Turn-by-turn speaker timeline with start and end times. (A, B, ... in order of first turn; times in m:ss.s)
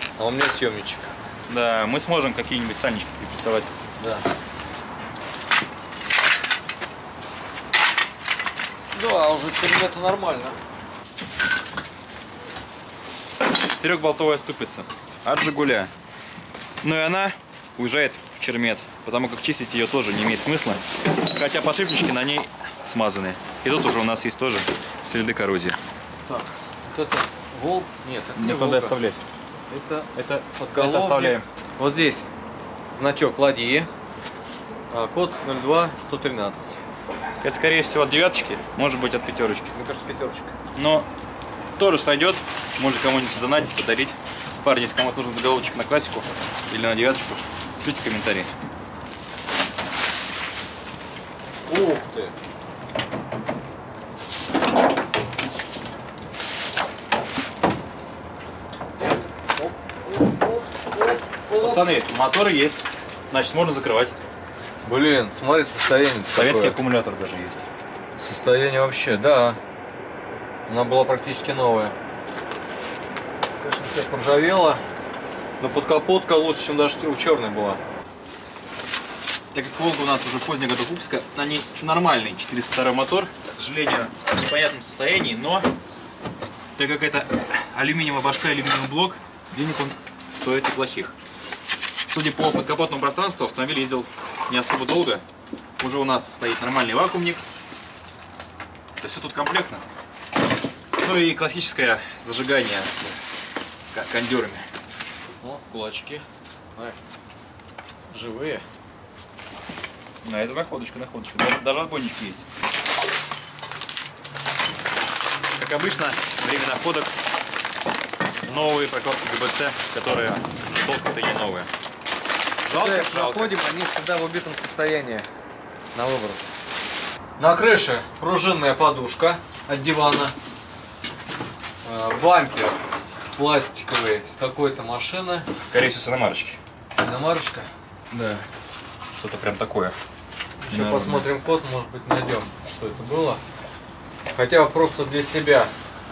0:00.2-0:01.1 A
0:01.5-0:03.7 B
0:04.0-0:04.2 A
0:08.9-0:10.6 A
0:13.5-0:15.9 B
0:16.8-0:25.8 B
0:26.2-0:29.0 A
0:28.4-0:29.2 B
0:29.7-0:32.2 A
0:30.1-0:31.4 B
0:32.9-0:33.9 A
0:34.9-0:36.8 A
0:37.4-0:39.7 B
0:39.7-0:40.5 A
0:40.7-0:41.1 B
0:41.8-0:48.5 B
0:51.7-0:52.3 A
0:59.6-1:01.9 A
1:01.6-1:04.1 B
1:04.8-1:06.8 A
1:06.3-1:07.6 B
1:08.2-1:09.6 A
1:10.7-1:11.9 A
1:13.6-1:14.8 A
1:15.6-1:17.8 A
1:19.5-1:25.7 B
1:26.8-1:31.1 B
1:32.1-1:35.2 B
1:35.8-1:37.4 B
1:39.0-1:39.8 B
1:40.9-1:43.1 B
1:43.9-1:44.7 B
1:45.4-1:46.2 A
1:48.1-1:48.6 A
1:50.2-1:52.4 B
1:55.5-1:57.1 B
1:58.4-2:01.7 B
2:02.6-2:03.5 B
2:02.7-2:05.3 A
2:05.9-2:06.5 A
2:07.4-2:10.3 A
2:11.8-2:12.8 A
2:13.3-2:15.5 A
2:15.7-2:16.6 B
2:17.0-2:17.7 A
2:18.1-2:18.4 B
2:19.2-2:20.0 B
2:20.6-2:23.4 A
2:20.7-2:21.3 B
2:24.3-2:25.7 A